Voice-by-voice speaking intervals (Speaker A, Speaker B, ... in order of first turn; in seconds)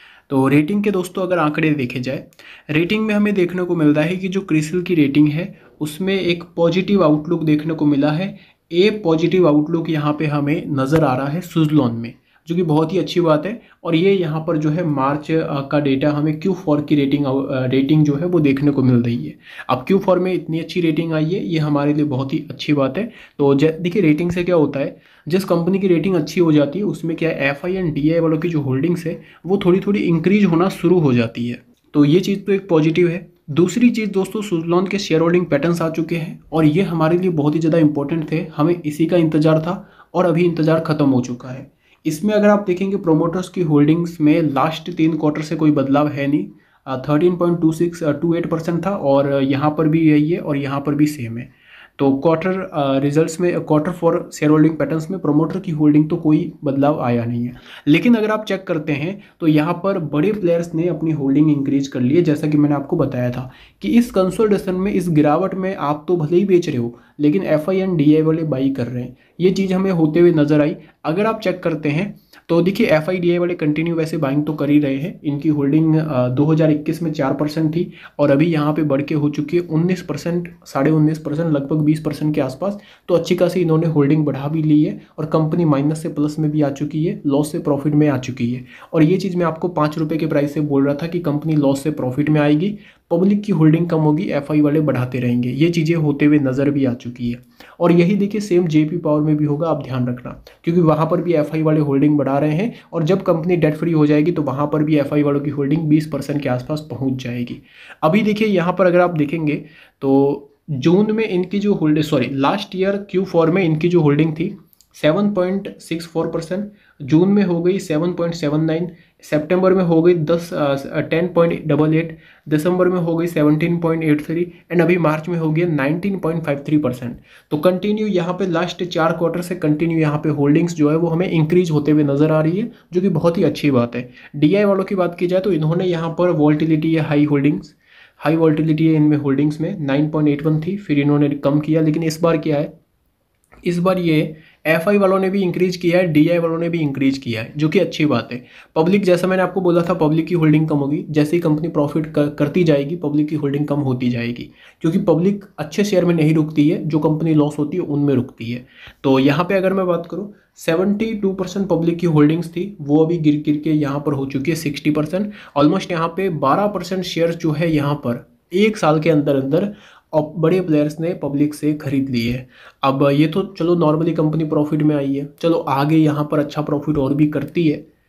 Speaker A: 0.3-142.7, 143.7-177.8